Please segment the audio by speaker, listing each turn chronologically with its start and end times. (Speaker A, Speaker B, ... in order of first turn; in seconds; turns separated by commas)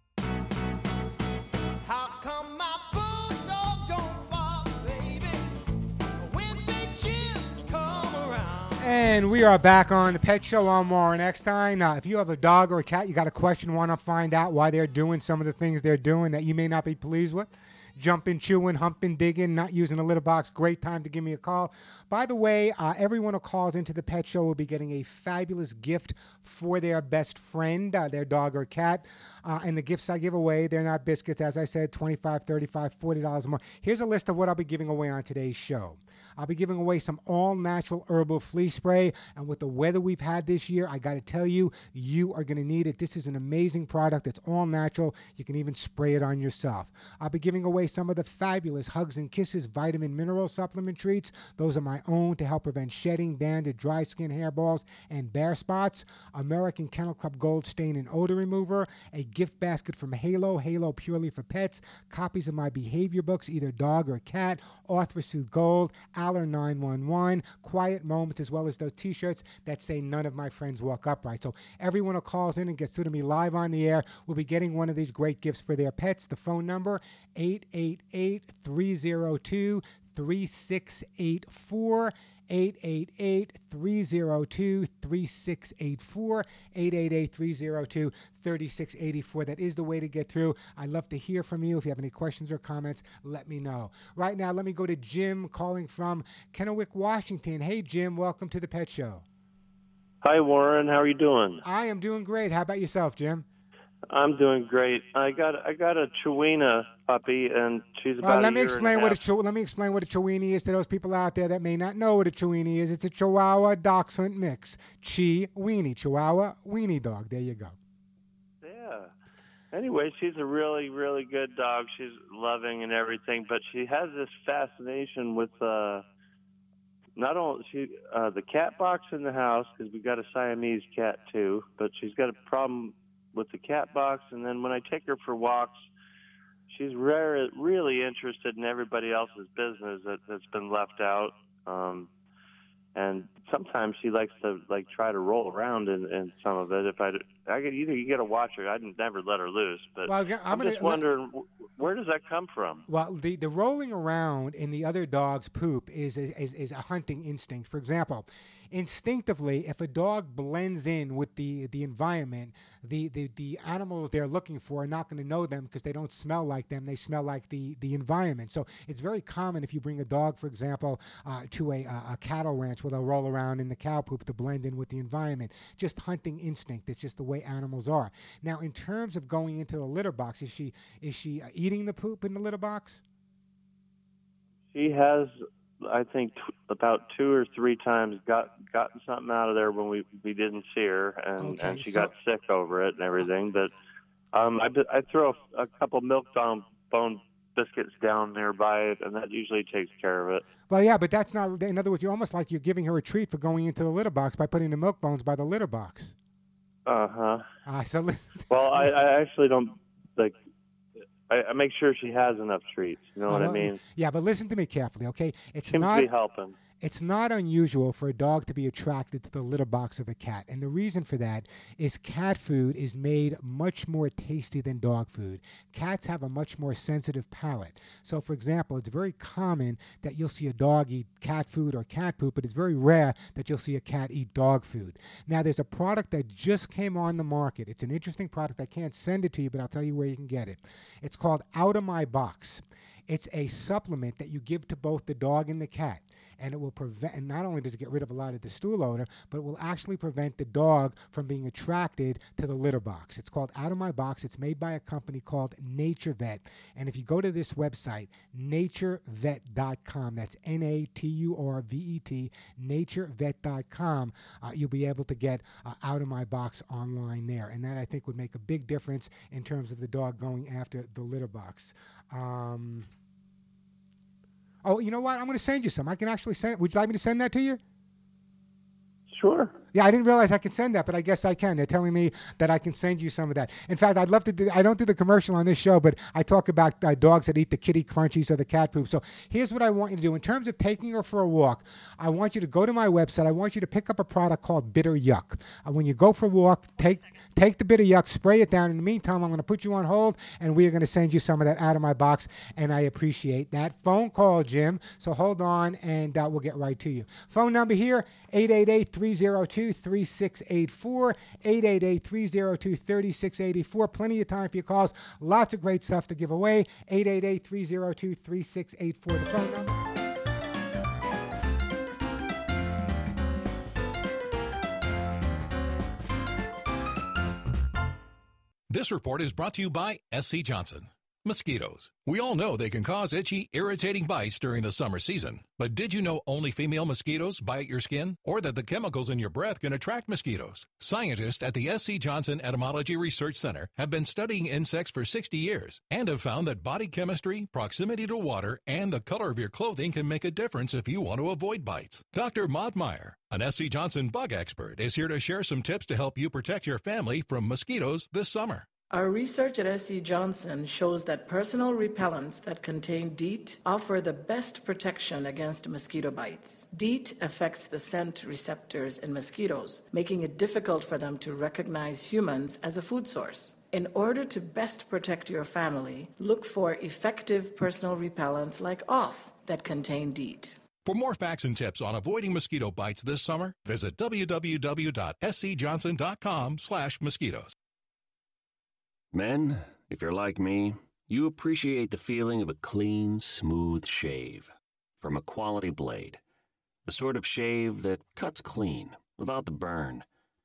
Speaker A: 8.8-99.2, Speaker B: 100.2-101.6, Speaker A: 101.6-103.4, Speaker B: 104.1-109.2, Speaker A: 108.2-117.8, Speaker B: 118.6-119.1, Speaker B: 119.7-126.0, Speaker B: 127.2-135.9, Speaker B: 136.7-142.1, Speaker B: 142.9-152.8, Speaker A: 150.1-151.0, Speaker A: 152.9-183.0, Speaker B: 184.7-193.7, Speaker A: 191.4-192.1, Speaker B: 194.3-200.4, Speaker A: 200.7-206.1, Speaker B: 206.8-207.4, Speaker A: 207.7-208.9, Speaker B: 208.5-210.4, Speaker B: 211.3-213.8, Speaker A: 213.3-216.1, Speaker B: 215.7-216.5, Speaker A: 216.8-272.9, Speaker A: 274.6-277.6, Speaker B: 279.1-279.5, Speaker A: 279.7-319.7, Speaker C: 328.7-358.6, Speaker D: 358.9-380.6, Speaker C: 380.8-387.5, Speaker E: 389.1-394.5, Speaker E: 395.0-396.2, Speaker E: 396.9-400.1